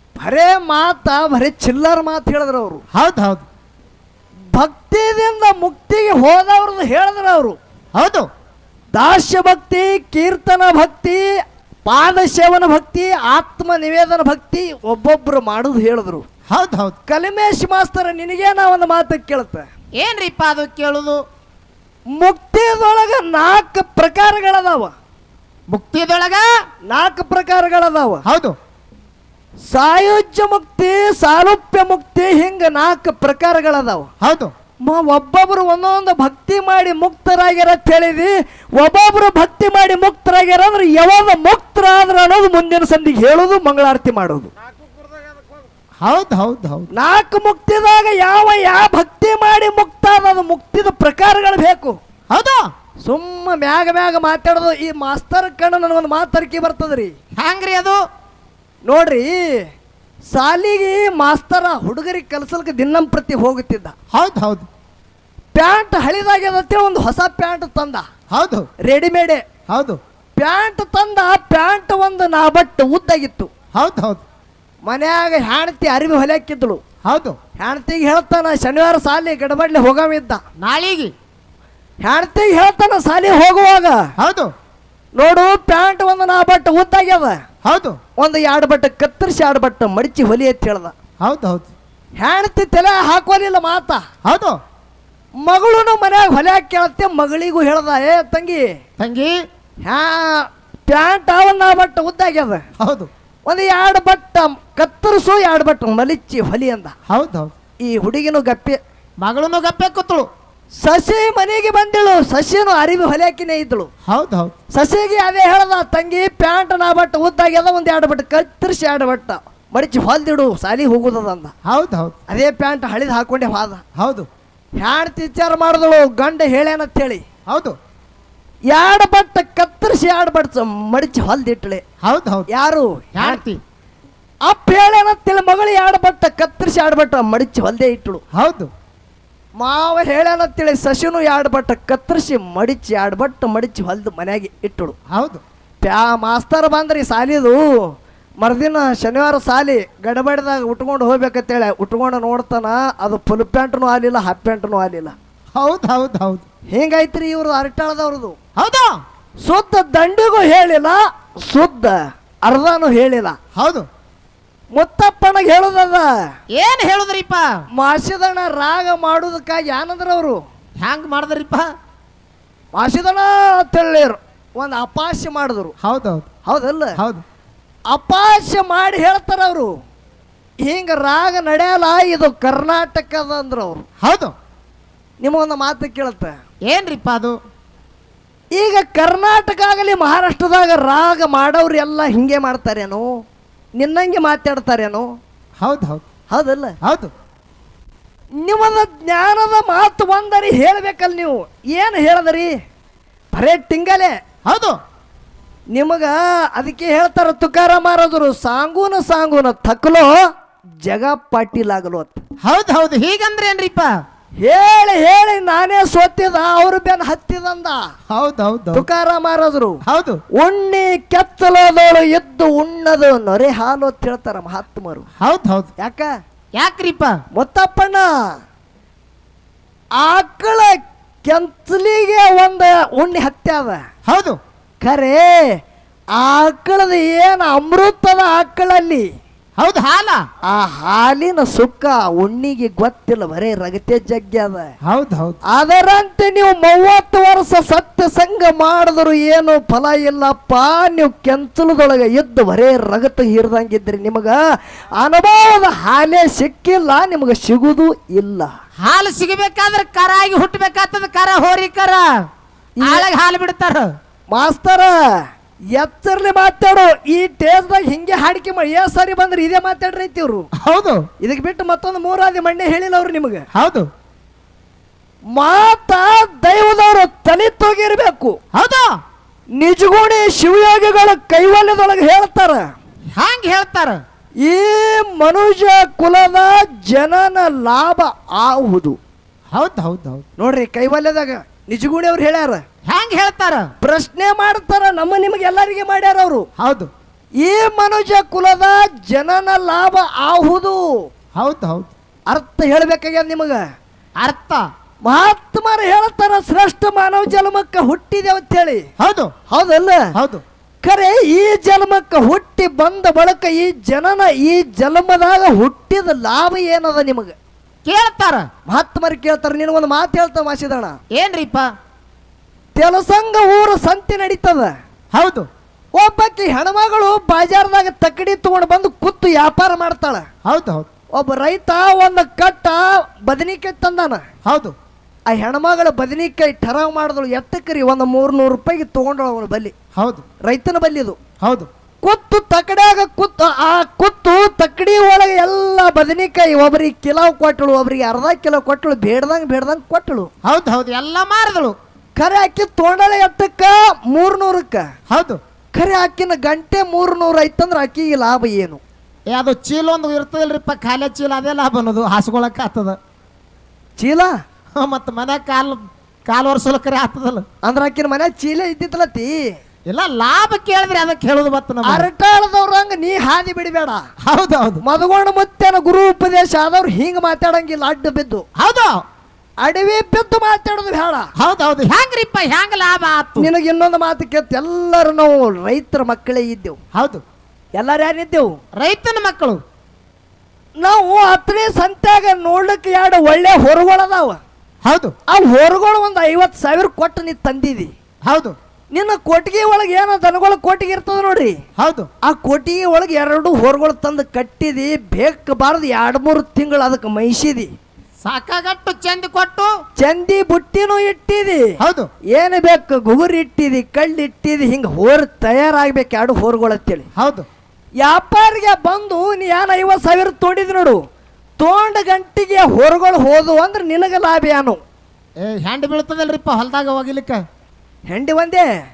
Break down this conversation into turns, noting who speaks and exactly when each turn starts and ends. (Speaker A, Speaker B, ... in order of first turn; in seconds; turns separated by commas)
Speaker A: 0.2-2.8, Speaker B: 2.9-3.4, Speaker A: 4.5-7.6, Speaker B: 7.9-8.3, Speaker A: 8.9-11.3, Speaker A: 11.8-16.2, Speaker B: 16.5-17.0, Speaker A: 17.1-19.7, Speaker B: 20.0-21.2, Speaker A: 22.2-24.9, Speaker B: 25.7-26.5, Speaker A: 26.9-28.2, Speaker B: 28.2-28.6, Speaker A: 29.7-34.1, Speaker B: 34.2-34.5, Speaker A: 34.8-44.5, Speaker B: 46.0-46.9, Speaker A: 46.9-52.0, Speaker B: 52.3-52.7, Speaker A: 53.0-57.1, Speaker B: 57.4-58.0, Speaker A: 58.9-59.7, Speaker A: 60.3-63.9, Speaker B: 64.1-64.7, Speaker A: 65.5-68.1, Speaker B: 68.3-68.7, Speaker A: 68.8-69.4, Speaker B: 69.7-70.0, Speaker A: 70.4-73.5, Speaker B: 73.7-74.2, Speaker A: 74.9-76.8, Speaker B: 77.0-77.4, Speaker A: 77.6-80.4, Speaker B: 80.6-81.1, Speaker A: 82.0-84.1, Speaker B: 84.2-84.5, Speaker A: 85.2-87.4, Speaker B: 87.6-88.0, Speaker A: 88.2-90.9, Speaker B: 91.2-91.7, Speaker A: 92.2-94.0, Speaker B: 94.2-94.6, Speaker A: 95.4-98.7, Speaker B: 99.0-99.4, Speaker A: 99.8-102.6, Speaker B: 102.8-103.1, Speaker A: 103.5-106.9, Speaker B: 107.1-107.5, Speaker A: 107.8-108.8, Speaker B: 109.2-110.3, Speaker A: 110.8-113.9, Speaker B: 114.1-114.5, Speaker A: 114.7-121.5, Speaker B: 121.6-122.2, Speaker A: 122.3-123.8, Speaker B: 124.0-124.3, Speaker A: 124.8-127.2, Speaker B: 127.5-127.8, Speaker A: 128.7-131.8, Speaker B: 132.0-132.5, Speaker A: 132.5-133.4, Speaker B: 133.1-133.6, Speaker A: 134.5-138.2, Speaker B: 138.3-138.7, Speaker A: 139.6-144.9, Speaker B: 145.1-145.4, Speaker A: 145.8-155.1, Speaker B: 155.5-156.4, Speaker A: 156.7-158.4, Speaker B: 158.6-159.0, Speaker A: 159.4-163.4, Speaker B: 163.6-163.9, Speaker A: 164.7-166.1, Speaker B: 166.6-167.6, Speaker A: 167.8-170.4, Speaker B: 170.8-171.7, Speaker A: 172.7-175.7, Speaker B: 175.8-176.3, Speaker A: 176.4-177.0, Speaker B: 177.0-177.2, Speaker A: 177.9-179.7, Speaker A: 180.7-183.8, Speaker B: 184.0-184.3, Speaker A: 185.2-186.4, Speaker B: 186.7-187.4, Speaker A: 188.5-193.1, Speaker A: 193.8-195.1, Speaker B: 195.6-196.1, Speaker A: 196.3-196.8, Speaker B: 196.8-197.1, Speaker A: 198.4-202.5, Speaker A: 203.3-204.2, Speaker B: 204.4-204.8, Speaker A: 205.7-210.2, Speaker A: 210.8-212.2, Speaker B: 212.4-213.9, Speaker A: 214.4-217.9, Speaker B: 218.1-218.9, Speaker A: 218.7-219.8, Speaker B: 219.8-220.2, Speaker A: 220.3-225.1, Speaker B: 225.2-225.7, Speaker A: 225.8-226.1, Speaker B: 226.6-227.2, Speaker A: 227.3-228.3, Speaker A: 230.0-233.8, Speaker B: 234.1-234.4, Speaker A: 234.8-235.6, Speaker A: 236.1-239.1, Speaker B: 239.6-240.2, Speaker A: 240.4-244.7, Speaker B: 244.9-245.4, Speaker A: 245.5-254.4, Speaker A: 255.0-258.5, Speaker B: 258.8-262.2, Speaker A: 262.8-263.1, Speaker B: 262.8-263.9, Speaker A: 264.3-265.2, Speaker A: 265.7-270.5, Speaker B: 270.5-271.1, Speaker A: 271.2-273.4, Speaker B: 273.5-273.9, Speaker A: 275.3-278.4, Speaker B: 278.5-279.0, Speaker A: 279.6-282.7, Speaker B: 283.1-284.0, Speaker A: 284.4-289.0, Speaker B: 289.5-290.2, Speaker A: 290.4-292.6, Speaker B: 292.9-293.7, Speaker A: 293.8-296.5, Speaker B: 296.6-296.9, Speaker A: 297.4-301.0, Speaker B: 301.4-301.9, Speaker A: 302.3-303.6, Speaker B: 304.2-304.6, Speaker A: 305.1-308.9, Speaker B: 309.0-309.3, Speaker A: 309.5-310.1, Speaker B: 310.1-310.4, Speaker A: 310.8-317.4, Speaker B: 317.9-318.5, Speaker A: 318.7-321.0, Speaker B: 321.1-321.7, Speaker A: 322.8-324.7, Speaker B: 325.1-325.5, Speaker A: 325.9-330.2, Speaker B: 330.4-330.9, Speaker A: 331.1-334.2, Speaker B: 334.4-334.8, Speaker A: 335.3-339.7, Speaker B: 339.9-340.2, Speaker A: 340.4-341.2, Speaker B: 341.4-341.7, Speaker A: 342.0-350.3, Speaker B: 350.4-351.8, Speaker A: 352.2-354.9, Speaker B: 355.1-355.4, Speaker A: 355.8-358.8, Speaker B: 359.3-363.0, Speaker A: 364.0-364.3, Speaker B: 364.8-367.4, Speaker A: 367.6-369.4, Speaker B: 369.9-372.1, Speaker A: 371.8-374.0, Speaker B: 374.2-374.8, Speaker A: 374.8-378.4, Speaker B: 378.6-379.0, Speaker A: 379.6-381.3, Speaker B: 381.4-383.5, Speaker A: 383.4-386.8, Speaker B: 386.9-387.2, Speaker A: 387.8-388.6, Speaker B: 388.8-389.6, Speaker A: 390.8-394.4, Speaker B: 394.8-395.1, Speaker A: 395.3-397.9, Speaker B: 398.2-398.6, Speaker A: 398.9-401.6, Speaker B: 401.8-402.1, Speaker A: 402.2-407.7, Speaker B: 408.2-409.7, Speaker A: 410.0-411.7, Speaker B: 411.8-412.1, Speaker A: 412.3-417.1, Speaker B: 417.1-417.5, Speaker A: 418.0-421.0, Speaker A: 421.6-424.8, Speaker B: 425.4-427.4, Speaker A: 428.1-428.7